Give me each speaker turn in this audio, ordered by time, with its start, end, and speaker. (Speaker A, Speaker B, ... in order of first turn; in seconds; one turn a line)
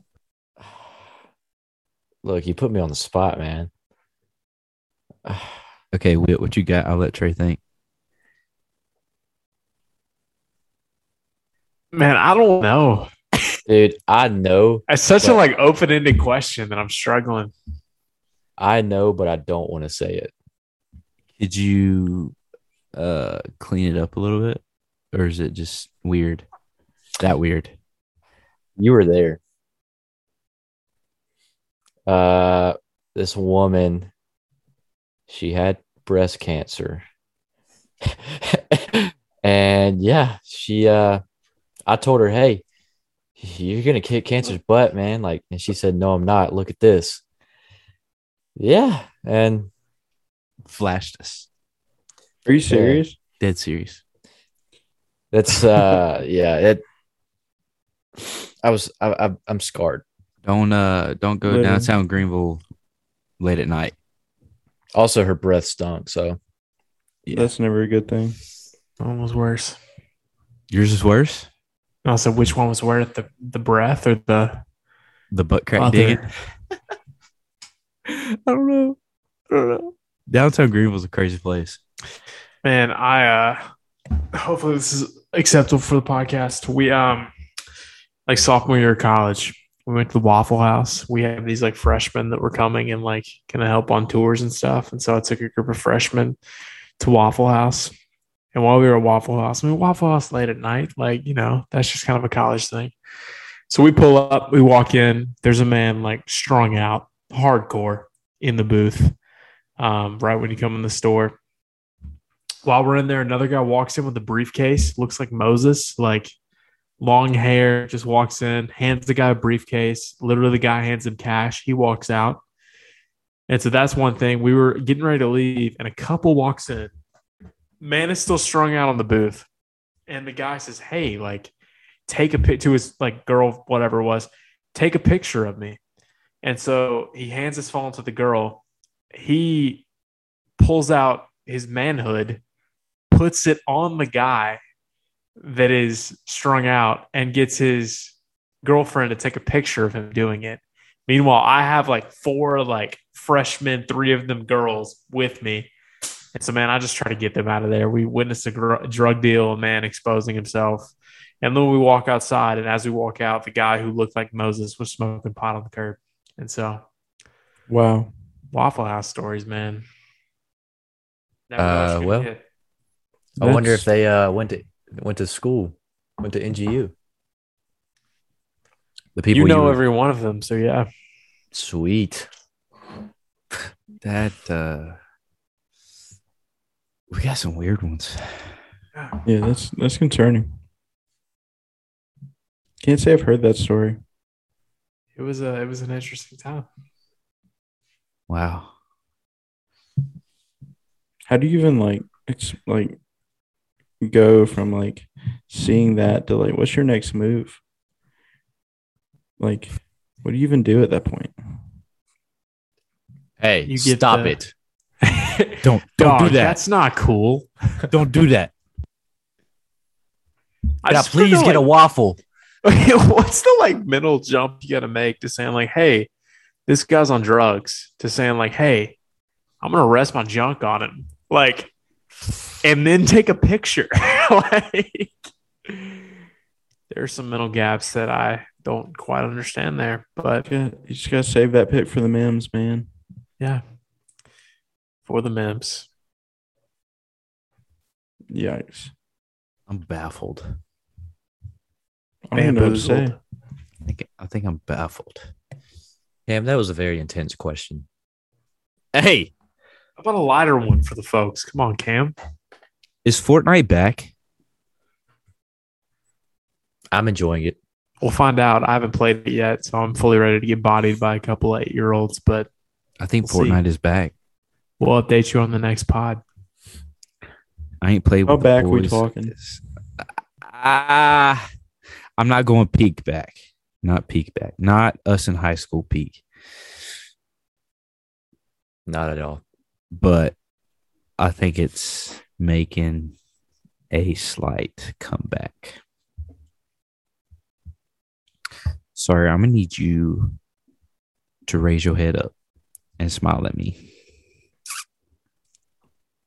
Speaker A: 2.2-3.7
Speaker A: 5.2-5.6
Speaker B: 5.9-7.6
Speaker C: 11.9-13.1
Speaker A: 13.7-15.4
Speaker C: 14.9-17.5
Speaker A: 18.6-20.3
Speaker B: 21.4-22.4
Speaker B: 22.9-26.4
Speaker B: 27.2-27.7
Speaker A: 28.8-29.4
Speaker A: 32.1-34.1
Speaker A: 35.3-37.0
Speaker A: 38.0-41.2
Speaker A: 41.9-42.6
Speaker A: 43.4-47.2
Speaker A: 48.6-49.7
Speaker B: 50.7-51.5
Speaker D: 52.5-53.2
Speaker A: 52.7-53.0
Speaker B: 53.4-54.0
Speaker A: 55.3-56.8
Speaker A: 58.6-60.0
Speaker B: 60.5-62.6
Speaker D: 61.4-61.9
Speaker B: 63.4-63.9
Speaker A: 64.9-66.4
Speaker D: 67.3-68.4
Speaker C: 69.0-69.8
Speaker B: 70.7-71.5
Speaker C: 72.0-74.6
Speaker B: 75.3-76.3
Speaker C: 75.8-76.3
Speaker B: 78.1-79.0
Speaker B: 79.5-81.8
Speaker C: 82.6-83.6
Speaker C: 84.3-87.3
Speaker C: 88.3-96.4
Speaker C: 97.0-97.9
Speaker C: 98.5-102.9
Speaker C: 103.7-109.2
Speaker C: 109.8-111.4
Speaker C: 112.7-116.3
Speaker C: 117.0-122.4
Speaker C: 123.5-126.9
Speaker C: 127.8-129.5
Speaker C: 130.1-131.5
Speaker C: 132.1-135.8
Speaker C: 136.4-138.6
Speaker C: 139.1-139.8
Speaker C: 140.6-142.4
Speaker C: 143.1-144.6
Speaker C: 145.4-155.7
Speaker C: 156.3-166.8
Speaker D: 167.7-168.1
Speaker C: 168.5-169.8
Speaker C: 171.5-172.4
Speaker A: 171.6-172.3
Speaker A: 173.4-176.9
Speaker D: 173.4-173.9
Speaker A: 179.2-179.8
Speaker C: 179.3-180.9
Speaker A: 181.5-182.3
Speaker B: 184.0-185.0
Speaker B: 187.1-188.5
Speaker D: 189.2-190.5
Speaker D: 192.8-194.0
Speaker C: 195.2-196.7
Speaker B: 198.3-198.7
Speaker D: 201.3-203.0
Speaker D: 204.0-207.6
Speaker D: 209.4-211.3
Speaker A: 213.4-214.5
Speaker C: 213.7-214.4
Speaker C: 215.0-217.5
Speaker B: 215.6-216.6
Speaker B: 217.9-218.5
Speaker C: 220.8-221.7
Speaker A: 220.9-222.2
Speaker C: 222.6-226.1
Speaker C: 226.7-229.0
Speaker C: 229.6-231.7
Speaker C: 232.6-235.2
Speaker C: 235.7-236.0
Speaker C: 236.9-240.5
Speaker D: 240.5-242.9
Speaker C: 245.1-245.9
Speaker D: 248.3-248.9
Speaker B: 249.7-250.5
Speaker D: 252.3-253.2
Speaker C: 252.3-253.2
Speaker B: 253.9-255.3
Speaker A: 256.3-257.9
Speaker B: 258.9-259.3
Speaker C: 260.0-262.1
Speaker B: 263.1-264.1
Speaker A: 266.9-267.6
Speaker C: 268.0-272.5
Speaker B: 273.0-274.1
Speaker C: 274.8-276.2
Speaker B: 277.8-281.4
Speaker D: 278.3-279.3
Speaker B: 282.2-286.2
Speaker A: 288.9-289.4
Speaker B: 289.9-290.3
Speaker B: 291.2-293.1
Speaker B: 293.9-295.8
Speaker B: 298.9-300.4
Speaker B: 301.5-302.3
Speaker B: 303.0-303.8